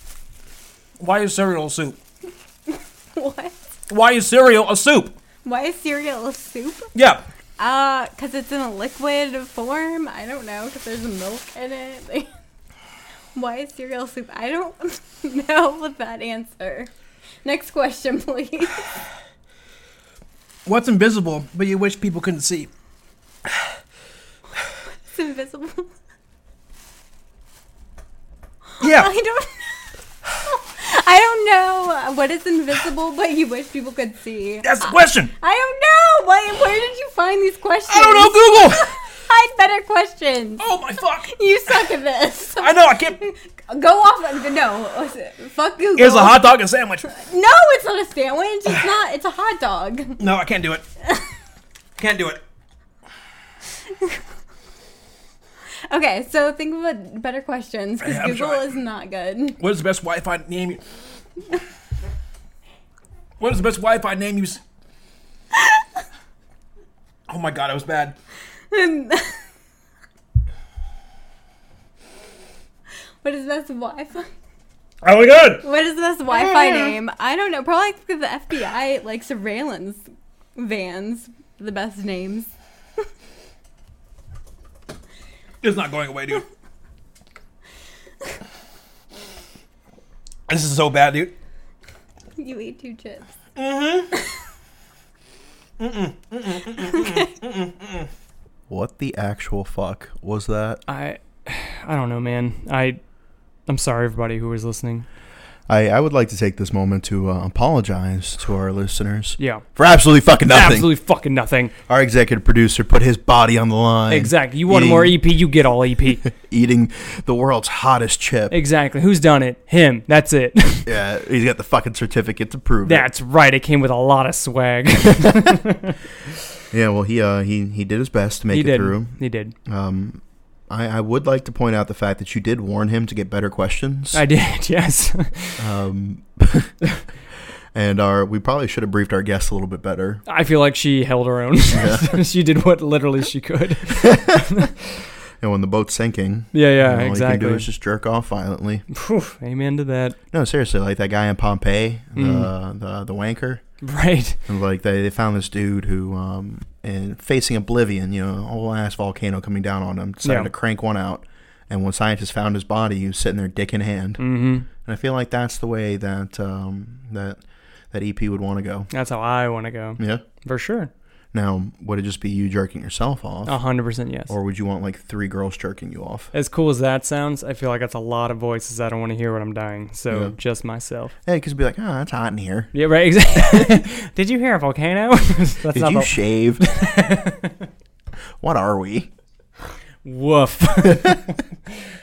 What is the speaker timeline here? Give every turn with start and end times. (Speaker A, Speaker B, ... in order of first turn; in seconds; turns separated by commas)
Speaker A: 1.0-2.0, Speaker B: 3.1-3.5, Speaker A: 3.9-5.2, Speaker B: 5.4-6.9, Speaker A: 6.9-7.2, Speaker B: 7.6-12.3, Speaker B: 13.3-16.9, Speaker B: 17.4-18.9, Speaker A: 20.6-22.7, Speaker B: 25.1-25.9, Speaker B: 28.8-29.8, Speaker A: 28.8-29.1, Speaker B: 30.4-50.2, Speaker A: 34.6-35.3, Speaker A: 37.9-38.9, Speaker A: 40.6-42.0, Speaker A: 42.5-43.2, Speaker A: 46.0-47.1, Speaker A: 50.2-50.9, Speaker A: 52.0-52.4, Speaker B: 55.9-59.6, Speaker A: 58.0-58.6, Speaker A: 59.6-60.8, Speaker A: 63.4-64.6, Speaker B: 65.5-65.8, Speaker A: 67.3-68.2, Speaker B: 68.7-69.4, Speaker B: 73.2-74.3, Speaker A: 75.0-75.7, Speaker B: 75.6-80.0, Speaker A: 76.3-76.9, Speaker B: 80.5-82.5, Speaker A: 85.6-86.5, Speaker A: 90.5-91.3, Speaker B: 92.4-93.2, Speaker A: 93.5-94.1, Speaker A: 95.8-98.1, Speaker C: 98.7-100.8, Speaker D: 100.9-103.0, Speaker D: 103.7-105.0, Speaker C: 105.7-110.9, Speaker D: 109.4-109.6, Speaker D: 110.5-111.7, Speaker C: 111.9-115.2, Speaker D: 114.1-116.2, Speaker C: 116.2-118.5, Speaker D: 118.5-120.9, Speaker C: 120.8-123.0, Speaker D: 122.8-126.0, Speaker C: 126.7-134.2, Speaker D: 128.5-129.5, Speaker D: 134.1-135.7, Speaker C: 135.6-136.8, Speaker C: 137.7-140.2, Speaker D: 140.2-144.7, Speaker C: 141.7-142.2, Speaker C: 144.0-144.5, Speaker C: 145.4-148.8, Speaker D: 146.5-147.7, Speaker D: 148.9-150.2, Speaker C: 150.3-153.6, Speaker D: 152.1-152.5, Speaker D: 153.8-154.4, Speaker C: 154.5-167.4, Speaker D: 160.2-160.5, Speaker D: 164.2-164.7, Speaker C: 167.9-168.9, Speaker D: 168.9-170.9, Speaker C: 170.0-170.2, Speaker C: 171.3-173.6, Speaker D: 173.4-174.3, Speaker C: 174.3-176.3, Speaker D: 176.3-181.1, Speaker C: 180.1-180.3, Speaker C: 181.2-182.7, Speaker D: 182.7-187.7, Speaker C: 185.7-186.7, Speaker C: 188.4-189.1, Speaker D: 190.0-191.3